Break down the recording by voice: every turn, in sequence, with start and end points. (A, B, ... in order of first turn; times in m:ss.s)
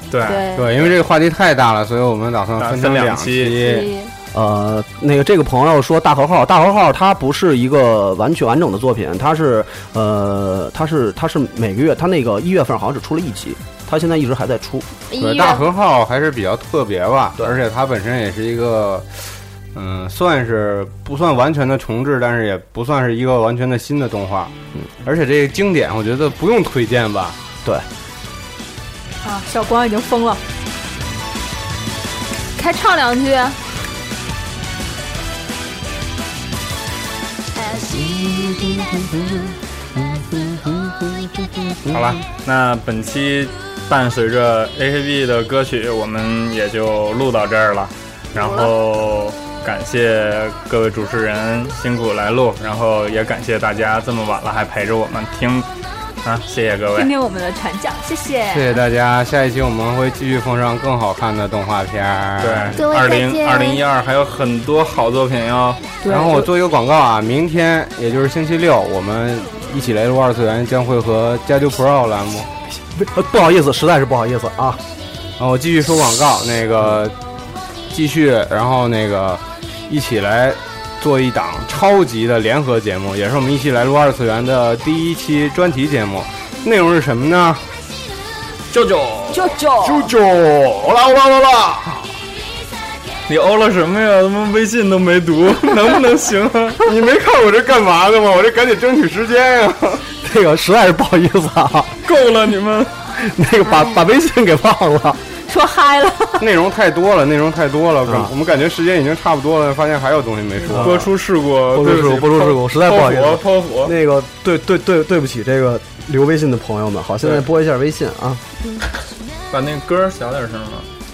0:00.1-0:00.9 A
0:00.2-0:00.7 B
0:00.5-0:03.9 C
0:02.6-0:03.6 A
0:03.6-0:04.1 B
0:04.3-0:14.9 D
0:15.1-0:15.6 B
0:15.2-0:24.5 C
0:25.0-0:27.4 C
0:29.2-0:30.4 E
0:32.6-0:33.6 B
0:37.9-0:38.5 D
0:38.2-0:38.5 C
0:41.9-0:55.7 A
0:48.4-0:48.7 B
0:56.2-0:57.1 A
0:56.9-0:58.8 E
0:58.5-1:02.8 C
1:02.4-1:05.8 A
1:02.8-1:03.8 B
1:06.0-1:06.5 E
1:06.0-1:12.5 C
1:12.8-1:14.8 D
1:15.4-1:17.1 C
1:17.9-1:27.6 C
1:28.7-1:29.5 A
1:29.3-1:30.0 B
1:29.8-1:32.0 C
1:33.3-1:36.8 A
1:36.8-1:40.0 C
1:40.2-1:41.9 D
1:42.0-1:42.9 A
1:43.2-1:45.2 D
1:45.5-1:46.4 E
1:46.4-1:51.0 C
1:48.0-1:48.3 D
1:50.6-1:51.1 D
1:50.7-1:53.9 A
1:51.7-1:58.4 D
1:59.5-2:00.9 A